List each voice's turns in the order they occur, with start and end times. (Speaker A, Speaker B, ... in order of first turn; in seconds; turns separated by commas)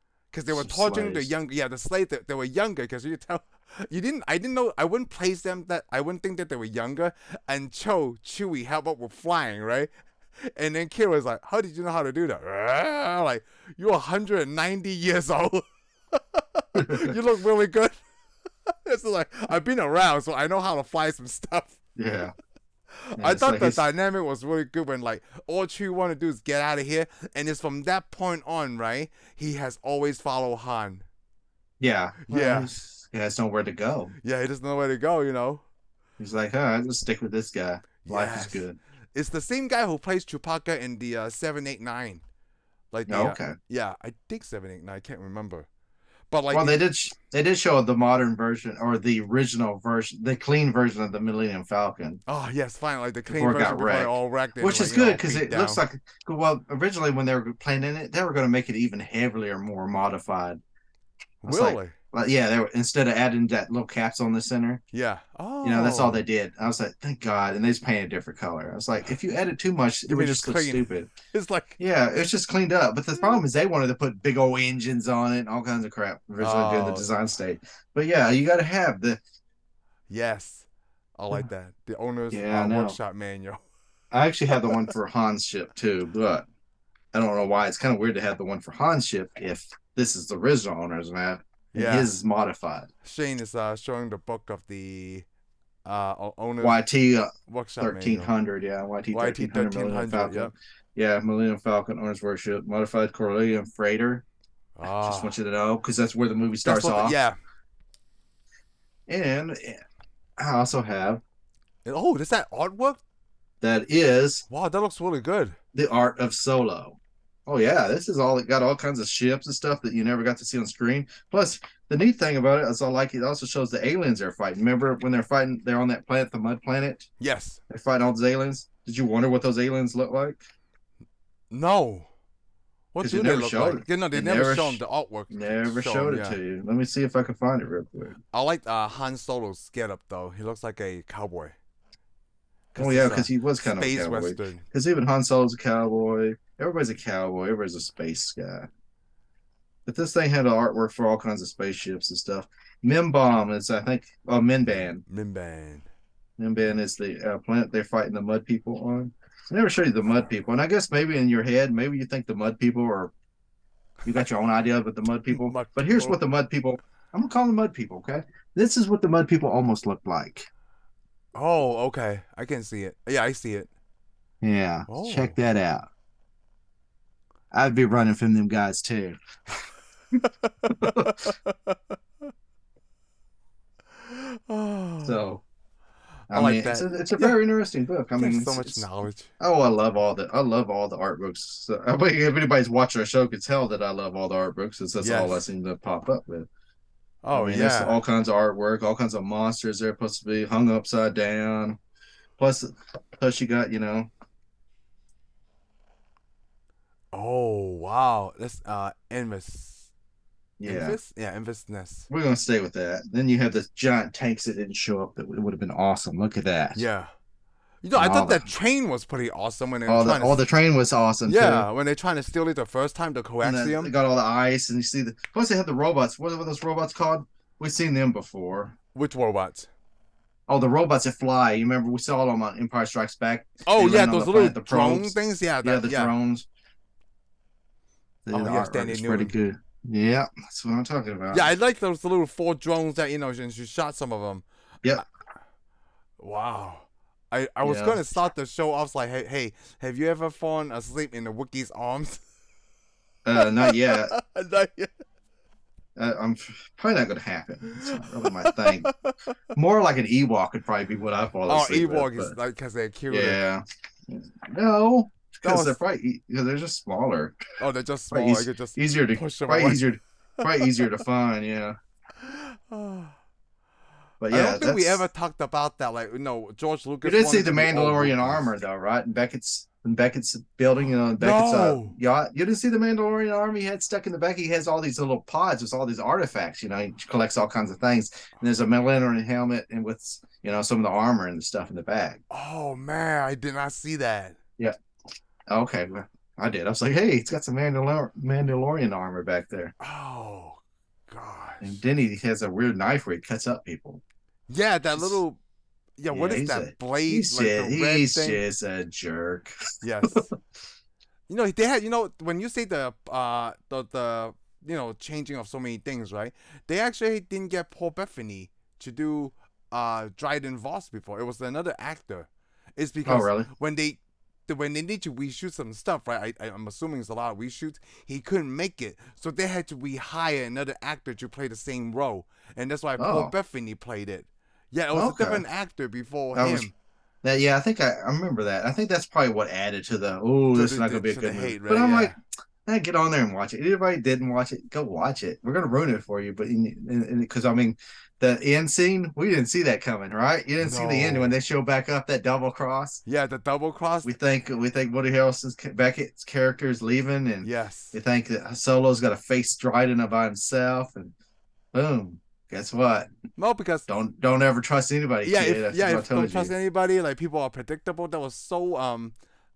Speaker A: 0.3-9.9, Speaker B: 0.5-1.3, Speaker A: 10.5-18.0, Speaker B: 16.8-17.2, Speaker A: 18.7-21.8, Speaker B: 22.0-22.3, Speaker A: 23.1-31.1, Speaker B: 23.2-23.8, Speaker B: 31.8-34.1, Speaker A: 32.3-32.7, Speaker A: 34.2-35.6, Speaker B: 36.2-38.8, Speaker A: 38.0-42.2, Speaker A: 42.9-45.7, Speaker B: 43.1-43.6, Speaker A: 46.3-46.8, Speaker B: 46.5-52.2, Speaker A: 52.3-55.8, Speaker B: 53.3-60.6, Speaker A: 61.4-62.0, Speaker B: 61.5-64.8, Speaker A: 64.9-66.2, Speaker B: 65.6-71.1, Speaker A: 70.1-71.8, Speaker B: 71.8-79.2, Speaker A: 76.4-77.1, Speaker A: 80.1-83.6, Speaker B: 82.3-83.0, Speaker B: 84.1-86.5, Speaker B: 87.1-92.9, Speaker A: 91.7-92.1, Speaker A: 93.0-95.3, Speaker A: 95.9-96.8, Speaker B: 96.6-104.2, Speaker A: 97.5-98.3, Speaker A: 99.1-100.5, Speaker A: 104.8-105.4, Speaker B: 105.0-107.2, Speaker A: 106.7-107.4, Speaker B: 109.1-109.8, Speaker B: 110.4-111.2, Speaker A: 111.8-113.0, Speaker B: 113.6-114.5, Speaker A: 114.5-115.6, Speaker B: 115.7-127.1, Speaker A: 127.2-127.6, Speaker B: 127.7-130.4, Speaker A: 131.5-132.1, Speaker A: 132.9-136.4, Speaker B: 133.0-138.2, Speaker A: 138.3-141.6, Speaker A: 142.7-144.6, Speaker B: 142.8-148.7, Speaker B: 149.9-155.0, Speaker A: 154.7-155.9, Speaker B: 156.4-163.1, Speaker B: 164.1-170.5, Speaker A: 165.3-166.2, Speaker A: 171.3-173.7, Speaker B: 174.4-175.9, Speaker A: 174.9-175.4, Speaker B: 177.5-179.2, Speaker A: 180.2-182.0, Speaker B: 180.7-181.3, Speaker A: 184.0-185.2, Speaker B: 185.0-185.4, Speaker A: 186.3-187.4, Speaker B: 186.3-188.8, Speaker A: 188.2-189.3, Speaker B: 189.4-196.5, Speaker A: 195.0-195.4, Speaker A: 197.2-198.0, Speaker B: 197.3-201.8, Speaker B: 202.4-204.1, Speaker A: 207.1-209.9, Speaker B: 210.6-211.0, Speaker A: 210.6-212.1, Speaker B: 212.1-216.8, Speaker A: 216.8-217.1, Speaker A: 217.8-220.4, Speaker B: 218.0-218.5, Speaker B: 219.9-221.7, Speaker A: 221.3-223.9, Speaker B: 223.4-228.8, Speaker A: 228.9-229.7, Speaker B: 230.5-236.5, Speaker A: 233.7-236.1, Speaker B: 238.3-241.5, Speaker A: 238.3-239.3, Speaker A: 241.3-245.0, Speaker A: 246.2-252.2, Speaker B: 247.6-248.0, Speaker B: 253.2-254.2, Speaker A: 253.4-254.9, Speaker B: 256.0-258.9, Speaker A: 257.8-259.4, Speaker B: 259.6-262.4, Speaker A: 261.5-263.4, Speaker B: 263.1-267.4, Speaker A: 265.4-265.8, Speaker A: 267.6-269.9, Speaker B: 268.1-271.8, Speaker A: 272.2-273.1, Speaker B: 274.2-275.0, Speaker A: 274.3-278.6, Speaker B: 277.0-292.2, Speaker A: 281.2-282.0, Speaker A: 292.3-294.4, Speaker B: 295.5-299.7, Speaker A: 299.8-301.8, Speaker B: 301.6-304.0, Speaker A: 304.5-305.4, Speaker A: 306.0-308.4, Speaker B: 306.1-309.5, Speaker A: 309.8-310.3, Speaker B: 310.1-310.3, Speaker A: 311.3-336.7, Speaker B: 323.1-323.5, Speaker B: 333.0-333.3, Speaker B: 334.9-335.4, Speaker B: 336.4-336.7, Speaker B: 337.2-342.1, Speaker A: 340.5-342.2, Speaker B: 342.7-353.0, Speaker A: 350.6-351.4, Speaker A: 353.1-354.1, Speaker B: 354.0-361.1, Speaker A: 357.4-358.0, Speaker B: 361.7-363.1, Speaker A: 363.4-363.9, Speaker B: 363.9-366.5, Speaker A: 365.2-369.1